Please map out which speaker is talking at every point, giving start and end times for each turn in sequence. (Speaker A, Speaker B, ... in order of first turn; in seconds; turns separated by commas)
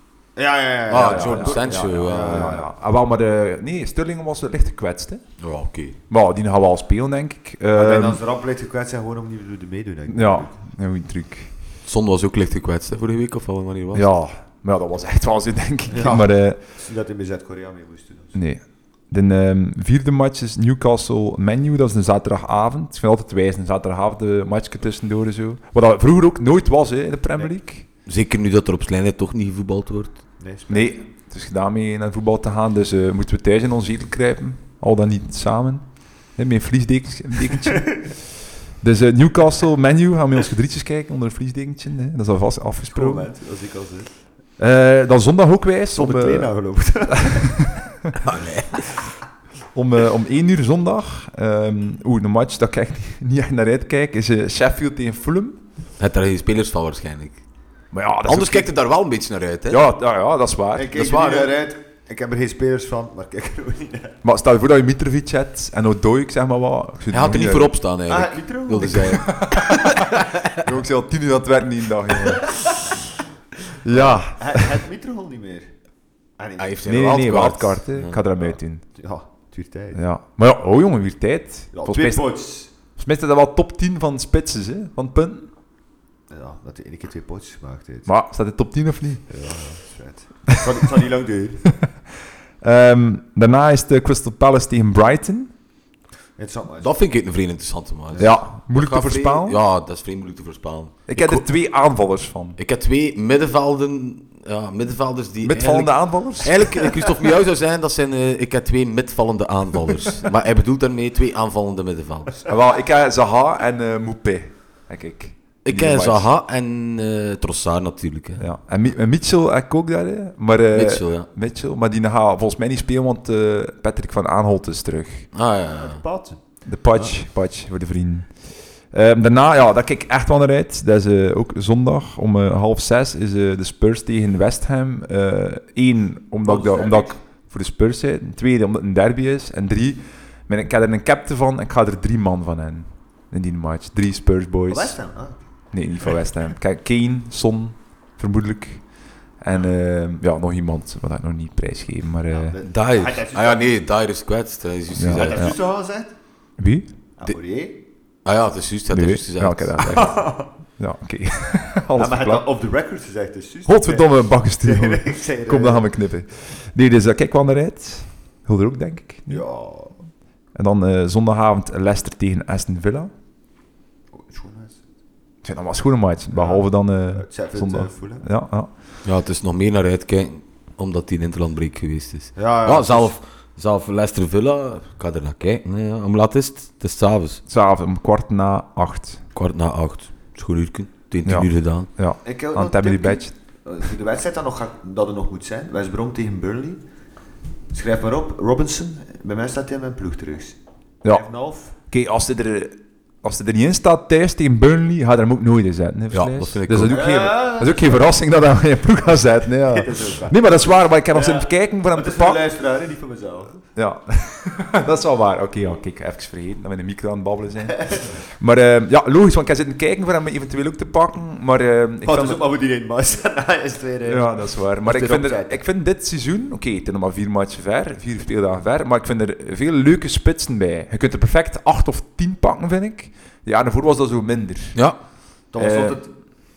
Speaker A: 0.4-2.7, Speaker B: 0.9-2.6, Speaker C: 0.9-5.2, Speaker B: 5.4-6.0, Speaker C: 6.1-8.2, Speaker A: 7.7-10.6, Speaker C: 10.1-11.5, Speaker B: 11.8-14.1, Speaker C: 13.9-16.6, Speaker A: 15.9-18.4, Speaker C: 18.4-27.9, Speaker B: 28.1-30.2, Speaker A: 30.4-30.9, Speaker C: 30.7-38.2, Speaker C: 38.8-43.3, Speaker A: 42.9-44.1, Speaker C: 44.6-46.5, Speaker A: 45.9-47.7, Speaker C: 47.1-47.8, Speaker B: 48.2-49.0, Speaker C: 49.7-55.6, Speaker B: 56.0-57.4, Speaker C: 57.9-58.7, Speaker B: 58.3-59.8, Speaker C: 59.7-61.0, Speaker A: 60.8-64.2, Speaker B: 61.0-61.5, Speaker C: 64.2-67.7, Speaker B: 67.1-70.7, Speaker A: 68.1-69.2, Speaker C: 68.9-72.6, Speaker C: 73.8-74.7, Speaker A: 73.9-75.7, Speaker A: 76.4-76.9, Speaker B: 76.6-78.2, Speaker C: 76.8-78.8, Speaker A: 79.0-80.0, Speaker C: 80.0-82.2, Speaker A: 81.7-82.7, Speaker C: 83.0-85.5, Speaker A: 86.3-88.1, Speaker C: 88.1-89.2, Speaker A: 89.3-91.7, Speaker C: 92.6-95.5, Speaker A: 96.4-96.9, Speaker B: 96.8-101.4, Speaker C: 98.2-99.6, Speaker C: 101.1-102.6, Speaker B: 102.6-112.5, Speaker C: 105.4-106.7, Speaker C: 112.5-116.3, Speaker B: 115.7-118.4, Speaker C: 118.4-125.3, Speaker B: 120.7-121.3, Speaker B: 125.3-126.0, Speaker A: 125.8-126.4, Speaker C: 126.7-128.3, Speaker C: 128.9-144.9, Speaker B: 136.5-137.1, Speaker A: 136.5-136.7, Speaker A: 144.7-145.4, Speaker C: 145.7-148.8, Speaker C: 149.4-152.6, Speaker A: 152.3-153.7, Speaker B: 152.7-155.6, Speaker C: 155.0-155.6, Speaker A: 155.1-156.1, Speaker C: 156.6-157.3, Speaker A: 157.2-157.8, Speaker B: 158.2-160.1, Speaker C: 158.9-160.2, Speaker A: 159.8-160.5, Speaker C: 160.8-162.5, Speaker A: 162.0-165.9, Speaker C: 163.7-169.5, Speaker A: 169.3-170.0, Speaker C: 170.6-173.1, Speaker A: 174.1-174.8, Speaker C: 175.4-178.7, Speaker A: 176.3-178.3, Speaker B: 179.1-187.4, Speaker A: 182.4-183.2, Speaker C: 187.5-189.2, Speaker B: 189.3-191.9, Speaker C: 191.2-193.3, Speaker A: 192.2-196.8, Speaker A: 197.7-201.7, Speaker C: 201.9-212.4, Speaker B: 206.1-207.0, Speaker A: 206.9-208.1, Speaker A: 209.5-210.4, Speaker A: 211.1-213.6, Speaker C: 213.8-222.4, Speaker A: 217.8-218.1, Speaker A: 222.0-225.6, Speaker C: 224.1-234.8, Speaker A: 235.5-236.1, Speaker C: 235.6-236.0